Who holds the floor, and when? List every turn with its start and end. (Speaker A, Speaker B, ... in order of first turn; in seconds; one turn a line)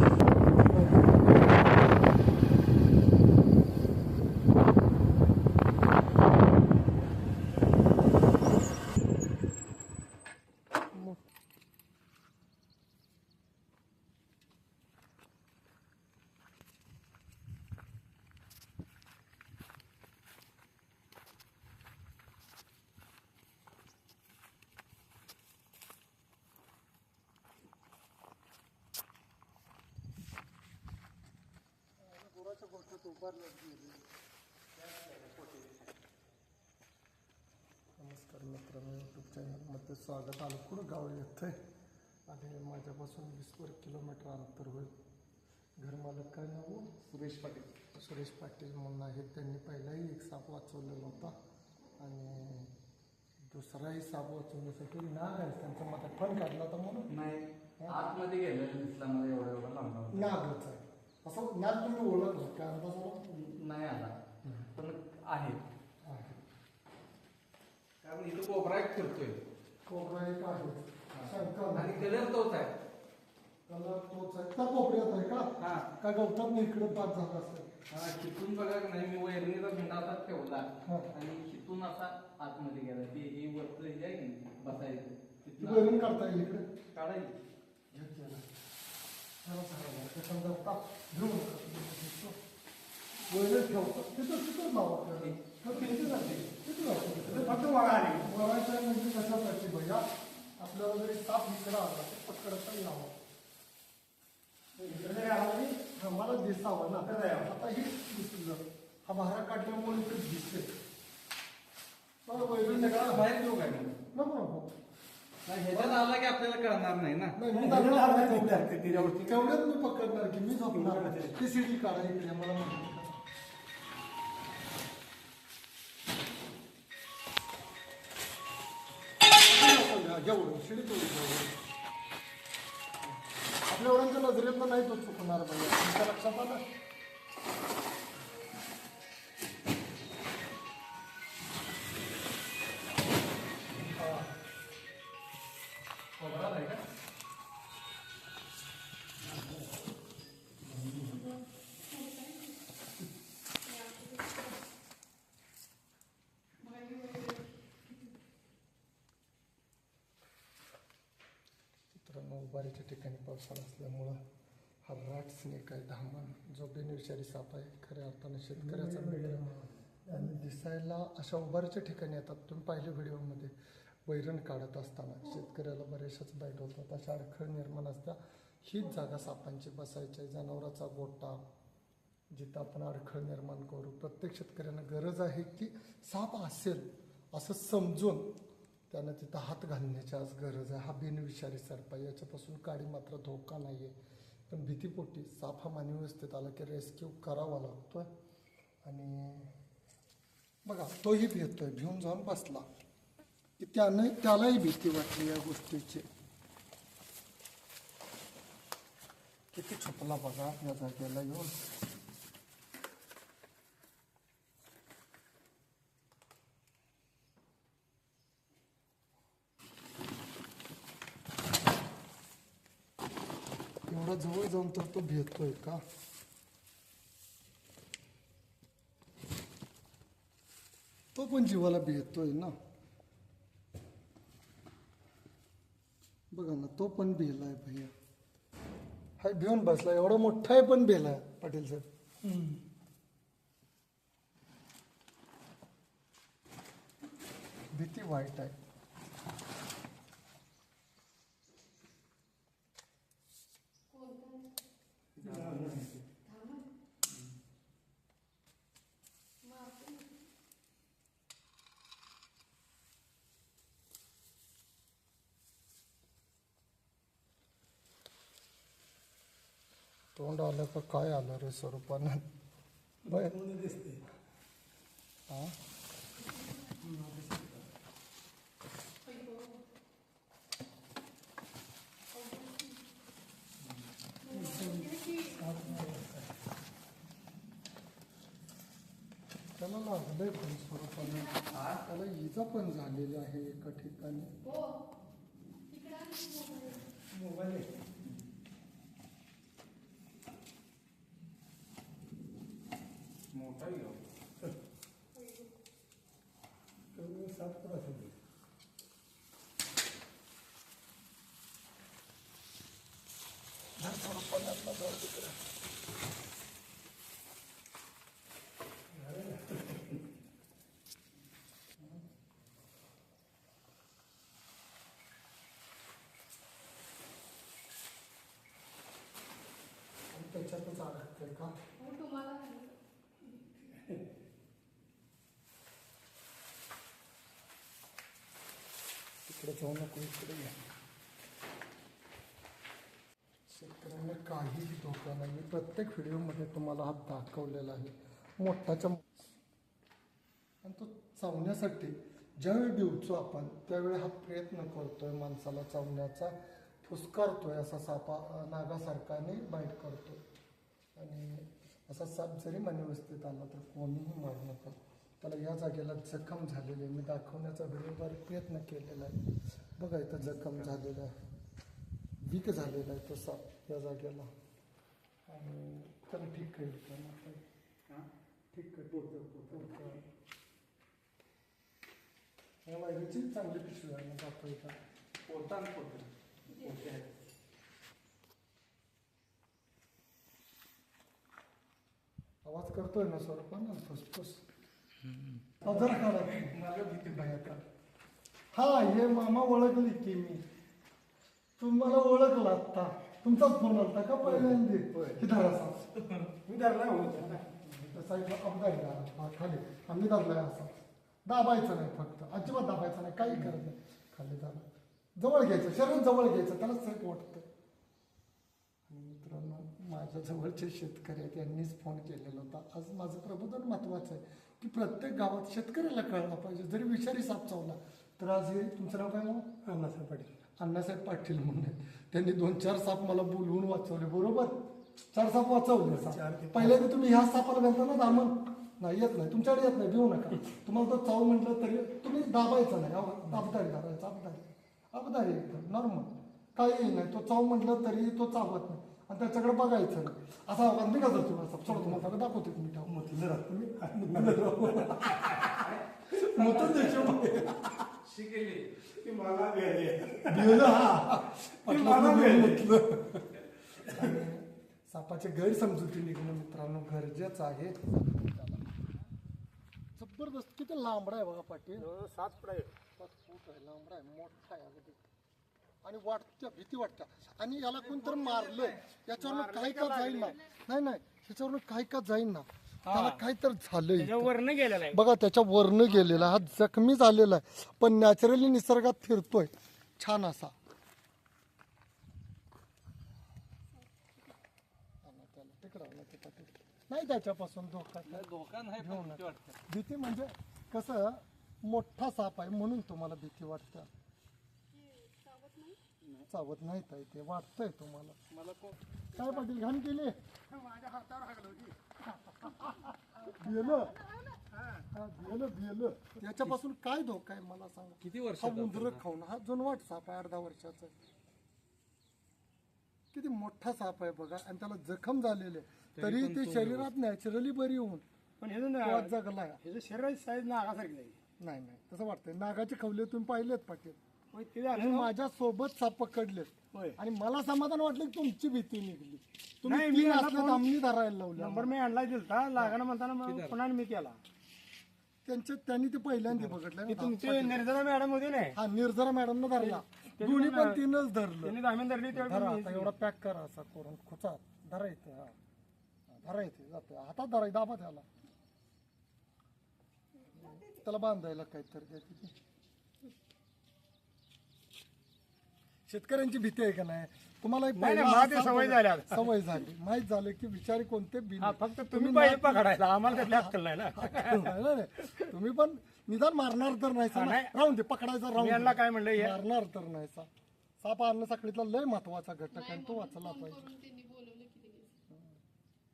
Speaker A: 0.6-1.3
Speaker A: 32.0-34.0
Speaker B: 34.9-35.7
Speaker A: 38.0-41.6
Speaker A: 42.3-44.9
Speaker A: 45.8-47.0
Speaker B: 47.1-47.7
Speaker A: 47.9-51.3
Speaker A: 52.0-52.7
Speaker A: 53.5-57.1
Speaker B: 57.1-60.4
Speaker A: 60.1-63.2
Speaker B: 63.3-64.1
Speaker B: 64.7-65.6
Speaker A: 66.0-66.4
Speaker B: 68.0-69.4
Speaker A: 69.8-72.1
Speaker B: 71.1-72.7
Speaker A: 73.7-77.7
Speaker B: 75.6-75.9
Speaker B: 77.9-86.4
Speaker A: 80.8-81.1
Speaker A: 85.6-86.7
Speaker B: 86.9-87.3
Speaker A: 87.9-88.4
Speaker A: 89.4-92.4
Speaker A: 93.2-97.7
Speaker C: 95.8-96.5
Speaker C: 97.2-98.3
Speaker A: 98.2-103.1
Speaker C: 104.8-105.8
Speaker A: 105.9-110.7
Speaker C: 107.0-107.5
Speaker A: 112.2-113.3
Speaker B: 112.3-114.0
Speaker A: 114.1-114.7
Speaker B: 115.5-117.4
Speaker A: 115.7-116.0
Speaker A: 117.3-123.2
Speaker C: 117.5-119.4
Speaker C: 120.7-121.3
Speaker A: 129.4-131.6
Speaker A: 133.7-136.6
Speaker A: 143.9-144.3
Speaker B: 146.2-146.8
Speaker D: 151.9-152.6
Speaker D: 153.7-154.6
Speaker D: 156.6-157.5
Speaker A: 161.9-164.2
Speaker A: 164.8-169.6
Speaker C: 168.7-170.3
Speaker A: 170.1-173.5
Speaker A: 174.1-181.4
Speaker A: 182.3-188.3
Speaker A: 188.9-193.9
Speaker A: 194.5-198.1
Speaker A: 198.8-199.5
Speaker A: 200.7-202.7
Speaker A: 203.6-206.1
Speaker A: 209.5-211.5
Speaker A: 223.9-225.8
Speaker A: 231.1-232.5
Speaker A: 236.3-237.9
Speaker A: 239.2-241.8
Speaker C: 242.2-242.6
Speaker A: 247.7-248.6
Speaker D: 253.9-254.5
Speaker B: 255.2-256.0
Speaker A: 255.2-255.8
Speaker C: 255.6-255.8
Speaker D: 256.2-256.6
Speaker D: 259.4-260.2
Speaker A: 270.1-272.2
Speaker A: 273.0-273.4
Speaker C: 273.2-274.0
Speaker A: 275.3-275.6
Speaker D: 279.0-279.6
Speaker D: 282.1-282.8
Speaker D: 284.2-285.8
Speaker A: 284.3-286.2
Speaker A: 289.6-294.3
Speaker D: 291.0-291.4
Speaker B: 291.5-291.8
Speaker D: 294.4-294.8
Speaker D: 295.7-296.8
Speaker C: 297.1-297.7
Speaker B: 303.3-304.0
Speaker D: 305.1-305.5
Speaker C: 307.0-308.1
Speaker A: 313.8-315.4
Speaker C: 319.0-319.7
Speaker A: 330.1-331.5
Speaker D: 331.8-332.8
Speaker A: 339.2-340.6
Speaker A: 343.5-349.1
Speaker A: 350.6-360.2
Speaker A: 360.9-369.2
Speaker A: 369.8-371.2
Speaker B: 370.3-370.7
Speaker A: 372.2-374.3
Speaker A: 375.3-377.4
Speaker A: 378.5-380.0
Speaker A: 382.6-384.8
Speaker B: 385.3-387.0
Speaker A: 392.4-394.4
Speaker B: 395.2-397.5
Speaker A: 395.6-397.6
Speaker A: 398.5-400.4
Speaker A: 401.6-405.8
Speaker C: 404.2-405.2
Speaker B: 406.0-406.3
Speaker C: 406.4-407.4
Speaker A: 407.6-410.7
Speaker A: 411.2-414.6
Speaker A: 415.2-417.5
Speaker A: 418.9-429.5
Speaker C: 429.6-430.3
Speaker A: 430.6-434.6
Speaker A: 435.1-455.5
Speaker C: 435.9-436.8
Speaker C: 452.9-454.5
Speaker B: 455.4-457.2
Speaker A: 456.1-457.8
Speaker B: 457.9-458.7
Speaker C: 458.9-460.9
Speaker A: 460.3-468.6
Speaker C: 461.6-462.6
Speaker A: 469.9-471.9
Speaker C: 471.8-472.7
Speaker A: 473.0-475.0
Speaker A: 475.8-484.3
Speaker C: 479.2-480.4
Speaker C: 482.8-483.2
Speaker C: 484.0-485.0
Speaker A: 484.9-490.5
Speaker A: 495.0-503.9
Speaker B: 498.1-499.6
Speaker D: 504.7-505.8
Speaker B: 506.0-506.3
Speaker A: 506.3-508.2
Speaker B: 508.3-508.8
Speaker A: 509.1-510.1
Speaker C: 510.5-511.8
Speaker A: 512.4-514.1
Speaker A: 514.9-520.9
Speaker B: 518.0-519.0
Speaker A: 523.1-528.0
Speaker B: 526.0-526.9
Speaker C: 528.4-531.2
Speaker A: 528.8-529.6
Speaker A: 531.4-534.0
Speaker C: 534.3-535.1
Speaker A: 534.7-541.7
Speaker C: 539.6-540.7
Speaker C: 541.4-544.2
Speaker B: 543.2-543.5
Speaker A: 545.2-547.7
Speaker C: 546.9-548.6
Speaker A: 548.5-551.6
Speaker C: 549.6-550.8
Speaker C: 551.4-552.9
Speaker A: 552.1-555.4
Speaker A: 556.1-558.0
Speaker A: 560.3-562.3
Speaker A: 565.9-580.3
Speaker C: 567.8-569.3
Speaker C: 571.4-574.5
Speaker C: 577.1-577.5
Speaker C: 578.3-579.4
Speaker A: 580.8-583.7
Speaker D: 582.5-584.9
Speaker A: 585.1-585.4